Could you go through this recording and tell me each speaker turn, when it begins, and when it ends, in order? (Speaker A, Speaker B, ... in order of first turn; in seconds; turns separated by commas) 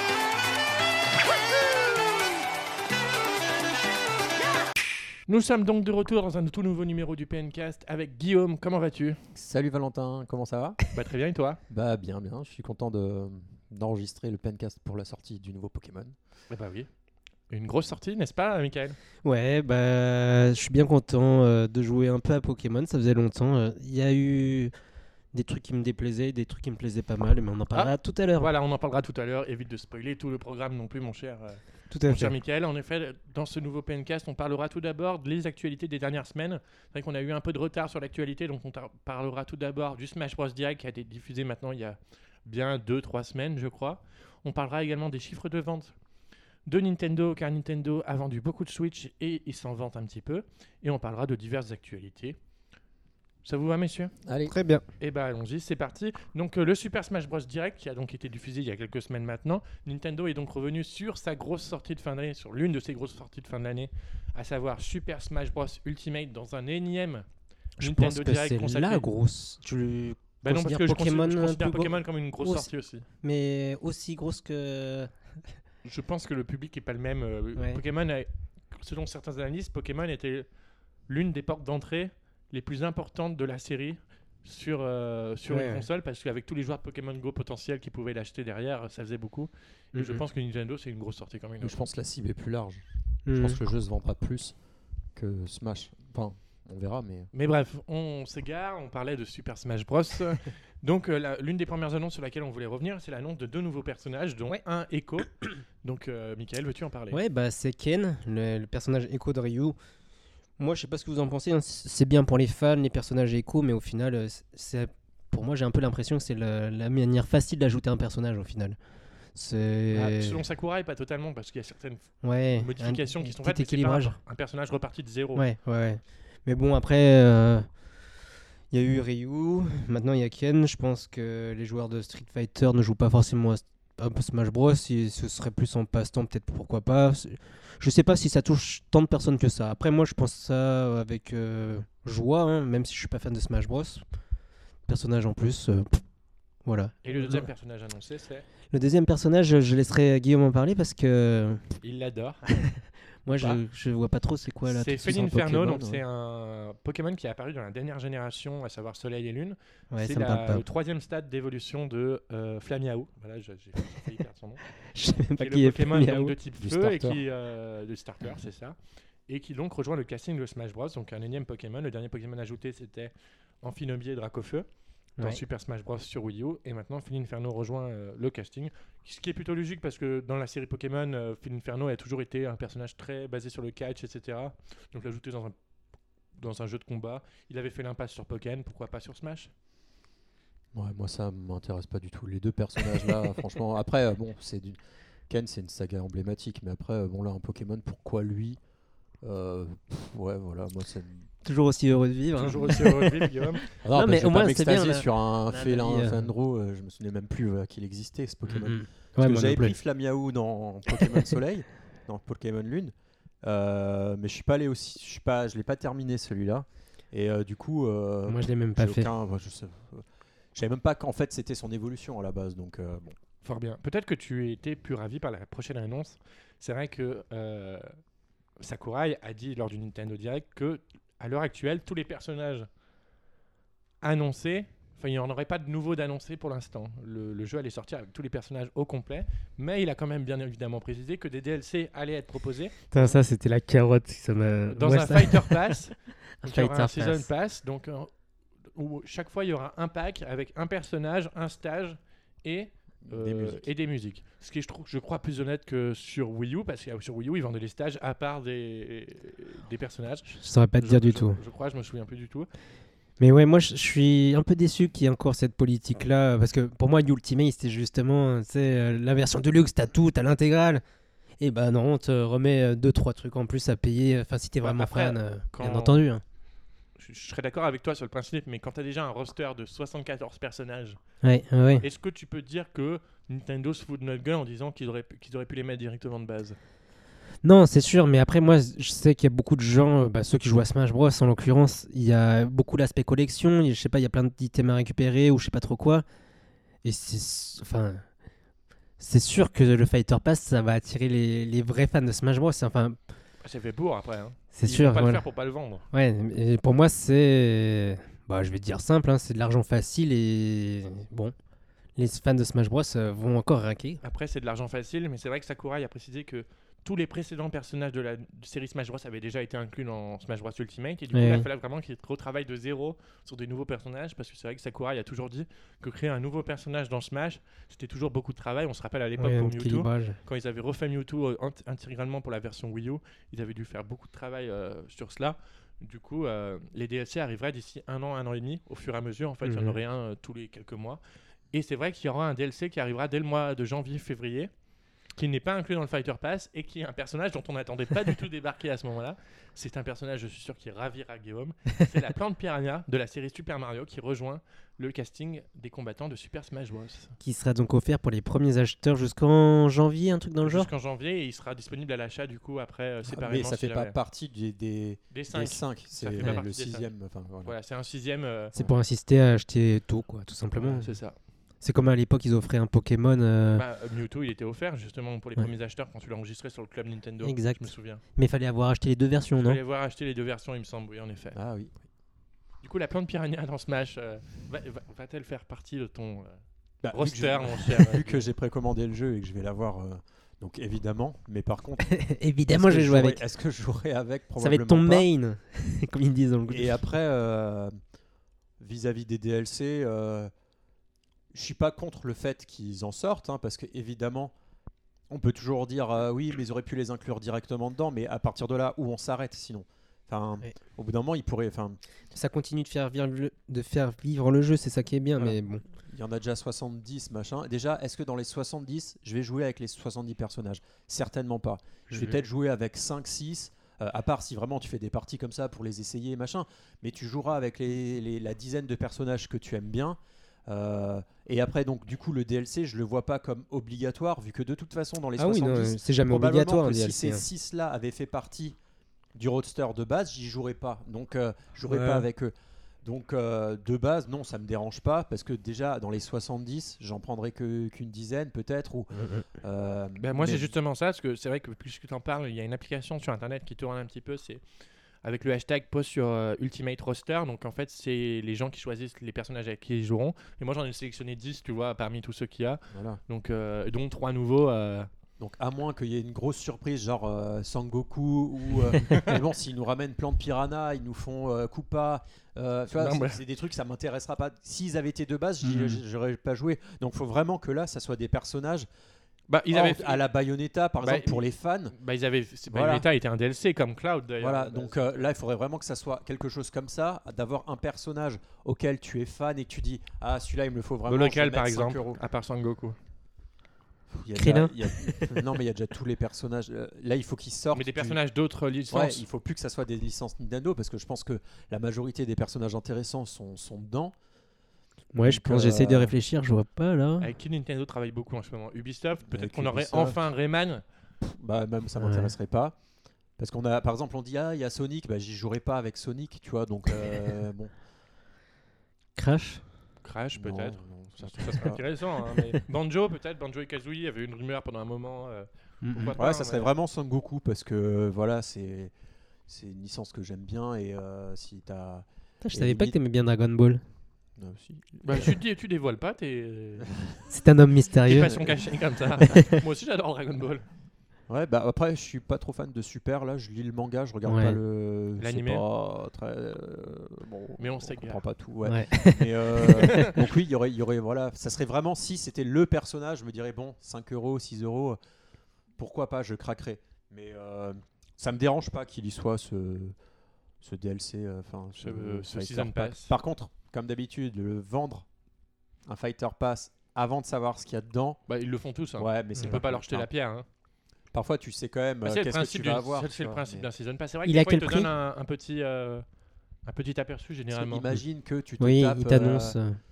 Speaker A: 5.3-9.2, Speaker B: 9.3-10.8, Speaker A: 10.9-11.6, Speaker B: 11.7-16.1, Speaker A: 16.5-16.9, Speaker A: 17.5-19.0, Speaker C: 19.2-24.7, Speaker C: 25.3-28.5, Speaker A: 27.7-46.0, Speaker C: 31.9-32.4, Speaker A: 46.7-52.4, Speaker A: 53.4-54.1, Speaker B: 54.3-54.5, Speaker C: 54.5-54.8, Speaker A: 55.0-69.1, Speaker C: 67.8-75.6, Speaker A: 70.4-73.1, Speaker A: 75.8-80.5, Speaker C: 77.6-77.8, Speaker A: 81.1-91.9, Speaker C: 85.5-85.9, Speaker C: 89.9-90.2, Speaker B: 91.6-94.6, Speaker C: 93.3-93.6, Speaker B: 95.2-97.3, Speaker A: 97.3-107.2, Speaker C: 107.1-109.8, Speaker C: 110.6-118.8, Speaker C: 119.3-120.4, Speaker A: 119.9-125.5, Speaker C: 122.2-124.2, Speaker C: 125.3-127.8, Speaker C: 128.7-144.0, Speaker C: 144.9-146.0, Speaker C: 146.7-147.5, Speaker A: 147.0-148.5, Speaker C: 148.7-151.8, Speaker A: 151.8-152.5, Speaker C: 153.2-156.0, Speaker A: 154.7-164.7, Speaker C: 159.9-160.6, Speaker C: 164.8-166.3, Speaker A: 165.4-174.7, Speaker B: 166.6-167.2, Speaker A: 175.2-185.6, Speaker A: 186.3-189.5, Speaker B: 190.7-194.8, Speaker B: 195.3-198.6, Speaker B: 199.2-201.3, Speaker C: 201.4-206.3, Speaker A: 202.3-203.7, Speaker B: 203.8-223.2, Speaker C: 208.5-209.8, Speaker C: 211.0-211.2, Speaker C: 218.3-219.1, Speaker A: 223.4-227.9, Speaker A: 228.6-232.7, Speaker A: 234.0-243.1, Speaker C: 242.9-247.3, Speaker A: 244.7-262.5, Speaker B: 253.0-253.7, Speaker C: 260.4-261.4, Speaker C: 263.2-270.8, Speaker C: 271.4-276.2, Speaker A: 274.6-276.0, Speaker A: 277.0-281.0, Speaker C: 281.2-281.9, Speaker A: 281.8-286.6, Speaker C: 287.4-296.1, Speaker C: 296.8-298.1, Speaker C: 299.0-303.0, Speaker A: 303.4-305.9, Speaker C: 304.5-305.2, Speaker C: 305.9-311.3, Speaker C: 312.0-314.0, Speaker A: 314.0-341.0, Speaker C: 321.1-321.5, Speaker C: 329.2-330.2, Speaker C: 339.4-339.8, Speaker A: 341.5-344.5, Speaker A: 345.1-357.2, Speaker C: 357.2-360.7, Speaker A: 360.4-364.0, Speaker B: 363.1-367.6, Speaker A: 365.1-366.9, Speaker A: 367.4-368.5, Speaker C: 368.5-371.0, Speaker A: 370.6-371.2, Speaker C: 371.6-373.6, Speaker A: 373.5-378.0, Speaker C: 377.2-379.6, Speaker A: 379.4-381.4, Speaker B: 381.3-381.8, Speaker A: 382.6-386.4, Speaker B: 386.8-395.1, Speaker A: 386.9-388.3, Speaker C: 391.9-393.2, Speaker C: 394.4-396.9, Speaker B: 396.5-397.7, Speaker B: 398.6-400.3, Speaker B: 401.3-404.3, Speaker B: 405.1-411.8, Speaker C: 412.1-415.6, Speaker B: 415.2-438.6, Speaker C: 421.9-422.2, Speaker C: 435.2-437.2, Speaker B: 439.1-442.3, Speaker C: 441.7-442.1, Speaker B: 442.8-450.5, Speaker C: 448.9-449.2, Speaker A: 450.0-454.4, Speaker A: 455.0-464.9, Speaker B: 462.7-463.0, Speaker B: 465.2-478.7, Speaker A: 468.9-469.1, Speaker A: 472.8-473.2, Speaker C: 475.4-475.8, Speaker A: 479.3-480.0, Speaker B: 479.5-481.8, Speaker A: 480.8-485.1, Speaker B: 482.5-482.9, Speaker B: 484.2-492.0, Speaker A: 490.9-492.8, Speaker B: 493.9-498.0, Speaker C: 494.2-495.2, Speaker A: 497.6-499.1, Speaker B: 498.7-503.9, Speaker C: 504.9-507.1, Speaker B: 505.0-505.9, Speaker A: 507.0-510.6, Speaker B: 509.1-510.0, Speaker B: 511.0-512.5, Speaker C: 511.8-512.1, Speaker B: 513.2-517.5, Speaker C: 519.0-519.4, Speaker A: 519.8-526.5, Speaker B: 520.1-521.7, Speaker C: 525.6-526.0, Speaker B: 525.8-528.7, Speaker B: 529.3-532.8, Speaker C: 532.2-533.6, Speaker B: 534.2-535.2, Speaker A: 534.8-536.9, Speaker B: 536.7-537.0, Speaker C: 537.1-538.2, Speaker A: 537.9-540.5, Speaker B: 538.0-538.4, Speaker C: 539.0-539.4, Speaker B: 541.1-554.8, Speaker C: 544.1-544.4, Speaker A: 545.0-545.4, Speaker A: 547.4-548.0, Speaker C: 548.5-549.9, Speaker A: 549.6-550.0, Speaker B: 555.6-559.8, Speaker B: 560.4-564.9, Speaker A: 561.6-562.9, Speaker B: 565.7-568.1, Speaker A: 568.1-570.3, Speaker B: 568.8-569.9, Speaker B: 570.9-573.5, Speaker A: 571.9-575.8, Speaker C: 574.1-574.7, Speaker A: 576.4-577.7, Speaker B: 577.3-579.4, Speaker C: 578.4-579.6